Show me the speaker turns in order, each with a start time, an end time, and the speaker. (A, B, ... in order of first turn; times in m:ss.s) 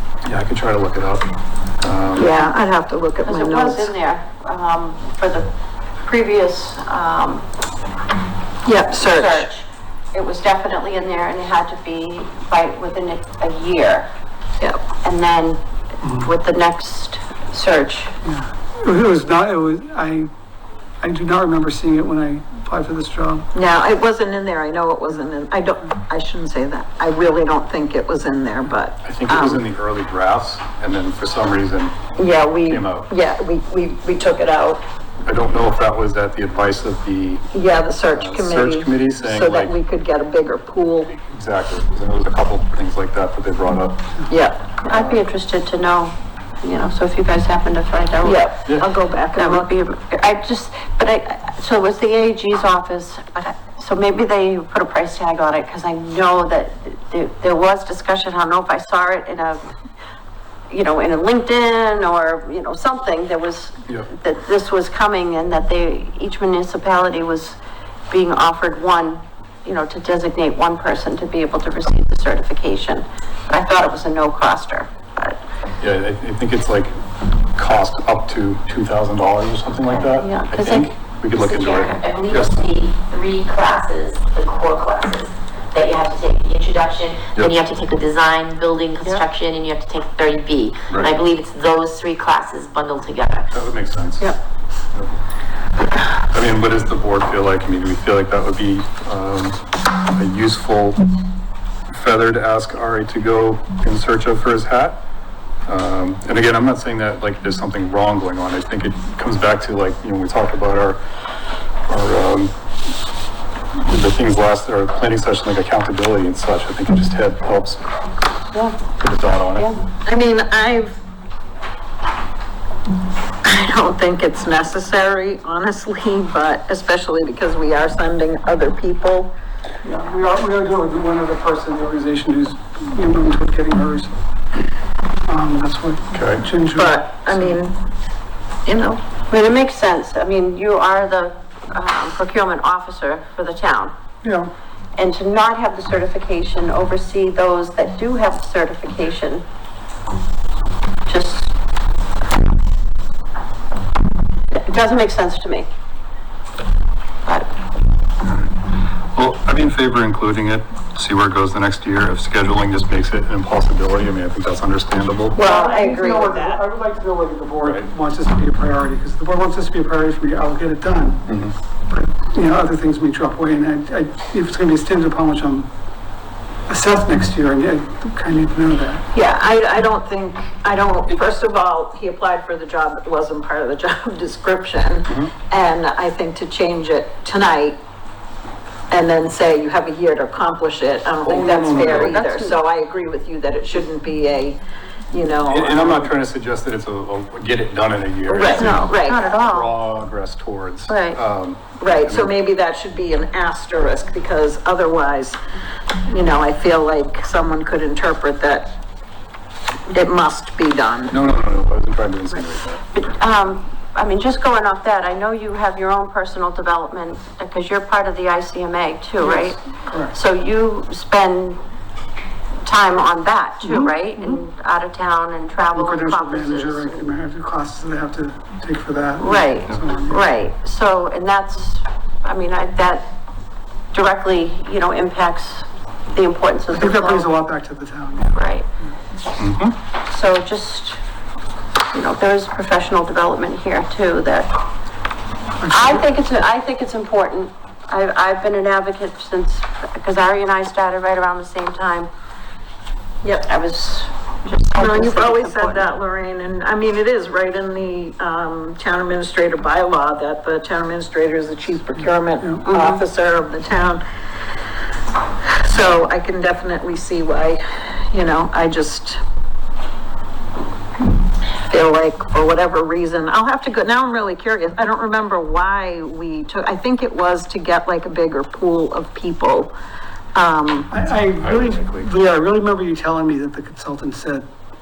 0:00.2-0:02.4 A
0:02.2-0:04.0 B
0:03.2-0:05.5 C
0:06.0-0:07.4 C
0:08.6-0:09.5 B
0:09.0-0:14.1 C
0:15.0-0:15.6 C
0:16.0-0:16.3 D
0:16.2-0:18.1 C
0:18.2-0:20.3 D
0:21.0-0:23.5 D
0:23.5-0:29.6 B
0:29.0-0:32.0 A
0:32.2-0:34.8 B
0:32.6-0:33.1 A
0:35.2-0:37.5 A
0:37.5-0:41.1 B
0:38.1-0:39.8 A
0:41.1-0:44.1 A
0:44.3-0:44.6 B
0:44.8-0:48.5 C
0:44.9-0:45.2 A
0:48.2-0:49.7 B
0:49.4-0:59.7 C
1:00.7-1:07.6 C
1:08.1-1:15.4 C
1:15.8-1:17.0 A
1:17.6-1:22.6 A
1:20.2-1:20.9 C
1:21.4-1:33.5 E
1:33.5-1:34.3 A
1:36.3-1:41.0 A
1:41.9-1:45.0 A
1:45.7-1:51.0 A
1:51.9-1:52.5 A
1:53.8-1:57.8 A
1:58.5-1:58.8 C
1:58.9-1:59.7 A
2:00.0-2:01.0 B
2:03.4-2:09.3 B
2:09.8-2:14.2 D
2:15.3-2:17.6 D
2:16.1-2:16.4 A
2:16.8-2:17.8 B
2:18.7-2:19.0 B
2:19.3-2:23.9 C
2:24.2-2:24.5 D
2:25.0-2:29.4 C
2:31.1-2:31.5 C
2:34.5-2:35.7 C
2:38.2-2:45.4 A
2:45.3-2:46.6 B
2:45.4-2:51.2 D
2:51.3-2:51.6 A
2:51.9-2:55.7 D
2:56.7-2:59.0 D
2:59.1-3:07.8 B
3:08.9-3:14.6 B
3:11.2-3:12.2 A
3:12.0-3:12.6 C
3:15.1-3:16.1 B
3:15.5-3:22.4 A
3:18.3-3:19.2 B
3:18.4-3:19.7 C
3:20.9-3:21.2 C
3:21.8-3:25.4 B
3:26.1-3:28.8 B
3:29.9-3:31.2 B
3:31.1-3:32.8 A
3:32.9-3:41.6 C
3:39.2-3:40.2 D
3:42.6-3:47.0 C
3:43.6-3:44.4 D
3:45.6-3:50.3 D
3:49.2-3:53.1 C
3:53.9-3:57.3 C
3:56.7-3:58.4 D
3:58.4-3:58.7 C
3:59.4-3:59.8 A
4:00.0-4:01.0 C
4:01.9-4:04.5 C
4:05.6-4:06.1 D
4:05.7-4:12.1 C
4:13.2-4:13.5 B
4:13.4-4:15.9 C
4:14.8-4:24.0 B
4:22.7-4:23.0 C
4:25.5-4:29.2 B
4:31.7-4:39.7 B
4:40.3-4:40.9 B
4:40.9-4:44.5 D
4:41.4-4:42.1 A